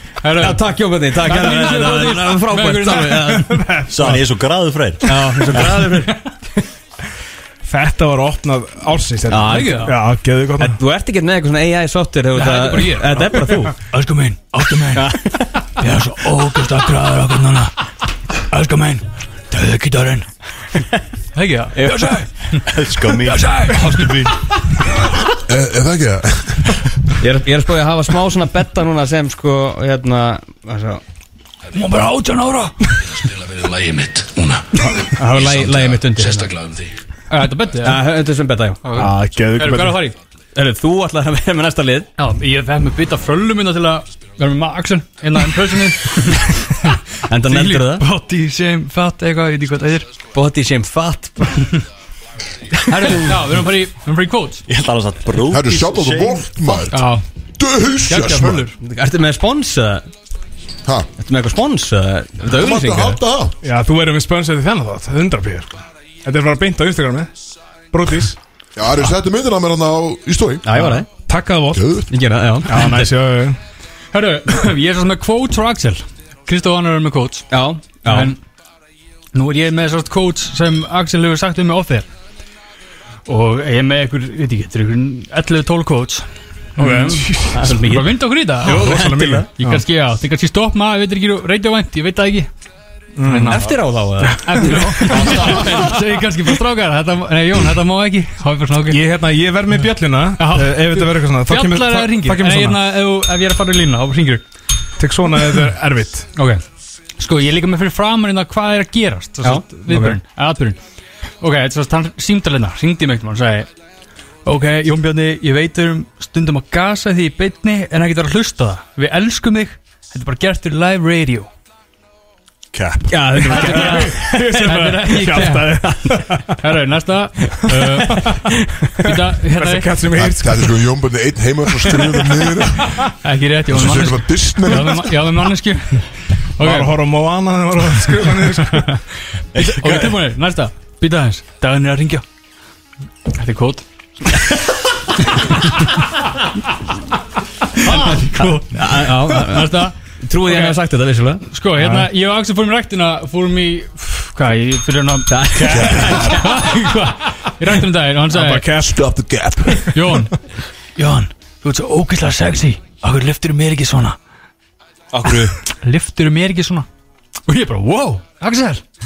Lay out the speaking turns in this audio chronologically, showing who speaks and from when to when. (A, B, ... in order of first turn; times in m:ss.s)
0:00.2-0:03.4 A
0:00.4-0:03.6 B
0:03.3-0:04.2 C
0:03.9-0:05.7 D
0:05.0-0:06.2 B
0:05.5-0:06.3 A
0:07.6-0:10.8 C
0:09.3-0:10.0 B
0:09.5-0:09.9 A
0:10.6-0:13.7 B
0:12.3-0:17.7 A
0:14.9-0:15.6 B
0:18.5-0:20.3 A
0:21.3-0:24.3 A
0:21.7-0:22.1 B
0:22.6-0:24.4 D
0:25.4-0:26.7 E
0:27.2-0:31.0 B
0:31.7-0:33.2 A
0:33.1-0:36.9 F
0:35.2-0:36.5 B
0:37.3-0:38.1 A
0:37.8-0:38.8 B
0:38.8-0:40.2 A
0:39.0-0:40.0 C
0:40.5-0:42.1 B
0:42.2-0:50.1 A
0:47.3-0:48.1 B
0:50.3-0:51.7 B
0:52.9-0:54.6 A
0:52.9-0:53.3 B
0:54.7-0:56.8 D
0:55.4-0:58.7 E
0:56.9-0:57.2 A
0:58.0-0:58.7 A
0:58.8-1:00.1 B
1:01.2-1:03.2 B
1:02.5-1:03.6 E
1:03.6-1:07.3 C
1:07.9-1:08.4 C
1:08.8-1:10.7 E
1:10.6-1:11.1 B
1:10.8-1:11.9 C
1:11.7-1:12.1 E
1:12.1-1:13.2 B
1:12.6-1:13.6 C
1:14.1-1:17.5 A
1:17.5-1:18.4 B
1:18.0-1:18.4 A
1:19.3-1:22.1 A
1:23.3-1:26.3 A
1:26.8-1:29.0 A
1:26.8-1:29.5 B
1:26.8-1:27.8 C
1:28.6-1:29.8 C
1:29.6-1:32.5 A
1:33.2-1:33.6 C
1:33.2-1:33.7 A
1:33.4-1:35.5 B
1:34.3-1:36.0 C
1:34.3-1:39.0 A
1:35.2-1:35.6 D
1:38.9-1:42.8 C
1:40.4-1:44.4 A
1:45.0-1:46.3 C
1:46.4-1:46.6 A
1:47.2-1:50.8 A
1:49.4-1:49.7 B
1:49.9-1:50.2 C
1:51.4-1:53.7 A
1:54.4-2:01.5 A
2:02.7-2:03.2 D
2:03.1-2:06.0 B
2:03.4-2:06.6 C
2:03.5-2:05.9 A
2:06.6-2:08.4 A
2:07.7-2:08.4 C
2:08.0-2:08.3 B
2:09.0-2:10.0 A
2:09.0-2:10.7 C
2:10.1-2:13.0 E
2:11.8-2:13.1 C
2:13.2-2:17.0 A
2:13.6-2:15.1 E
2:14.6-2:15.0 C
2:16.6-2:19.0 C
2:18.3-2:19.0 A
2:19.5-2:20.2 D
2:19.5-2:22.2 A
2:23.3-2:24.6 A
2:25.2-2:26.1 A
2:27.7-2:30.8 A
2:28.7-2:31.4 B
2:31.5-2:38.9 A
2:31.8-2:32.1 C
2:35.3-2:36.5 B
2:38.3-2:40.2 C
2:38.8-2:39.9 E
2:39.9-2:40.3 A
2:41.0-2:44.2 A
2:45.1-2:45.6 D
2:45.6-2:46.9 A
2:47.5-2:48.8 A